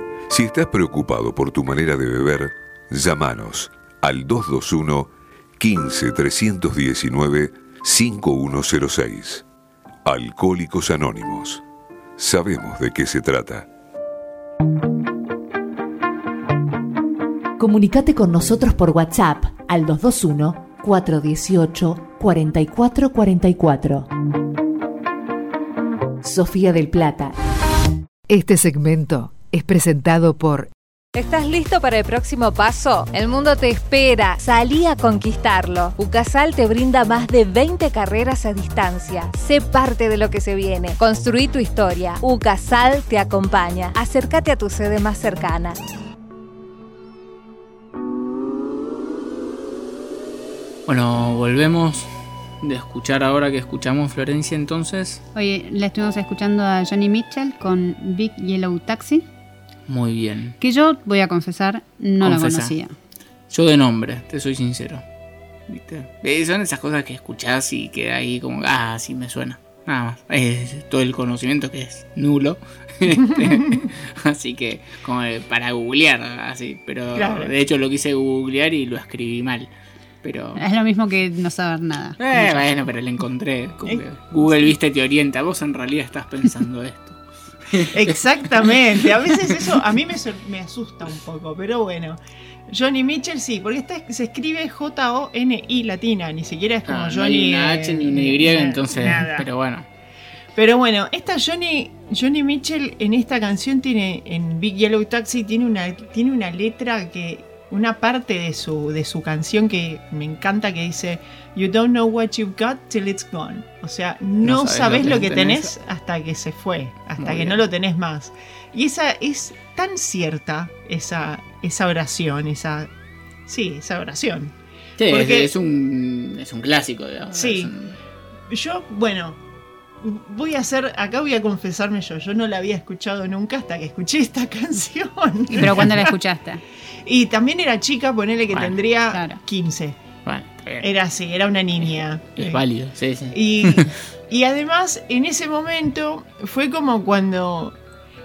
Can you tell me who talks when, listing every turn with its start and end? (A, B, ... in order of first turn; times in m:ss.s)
0:00.3-0:09.4 A
0:10.0-0:11.6 A
0:12.2-0:13.6 A
0:17.6-0:24.1 B
0:26.2-0:27.3 B
0:28.3-0:30.7 C
0:31.1-0:45.8 D
0:50.9-0:52.1 E
0:52.6-0:55.2 E
0:55.3-0:59.2 F
0:59.9-1:00.6 E
1:00.6-1:02.9 F
1:02.2-1:02.7 E
1:03.5-1:05.0 E
1:05.7-1:19.7 E
1:13.4-1:13.8 G
1:17.1-1:17.5 G
1:20.2-1:20.6 E
1:20.6-1:22.2 F
1:22.2-1:27.2 E
1:23.8-1:24.7 G
1:27.7-1:29.3 E
1:27.9-1:39.5 G
1:36.8-1:39.8 E
1:40.5-2:02.9 G
1:54.4-1:55.7 E
1:57.2-1:57.6 E
2:03.5-2:04.5 G
2:05.0-2:07.9 E
2:05.1-2:05.5 G
2:07.3-2:07.7 G
2:08.5-2:09.4 G
2:10.0-2:16.1 G
2:15.5-2:16.6 F
2:17.0-2:20.0 G
2:18.5-2:18.8 E
2:19.1-2:19.4 F
2:20.2-2:20.9 E
2:20.8-2:22.6 G
2:22.4-2:23.9 E
2:23.3-2:27.7 G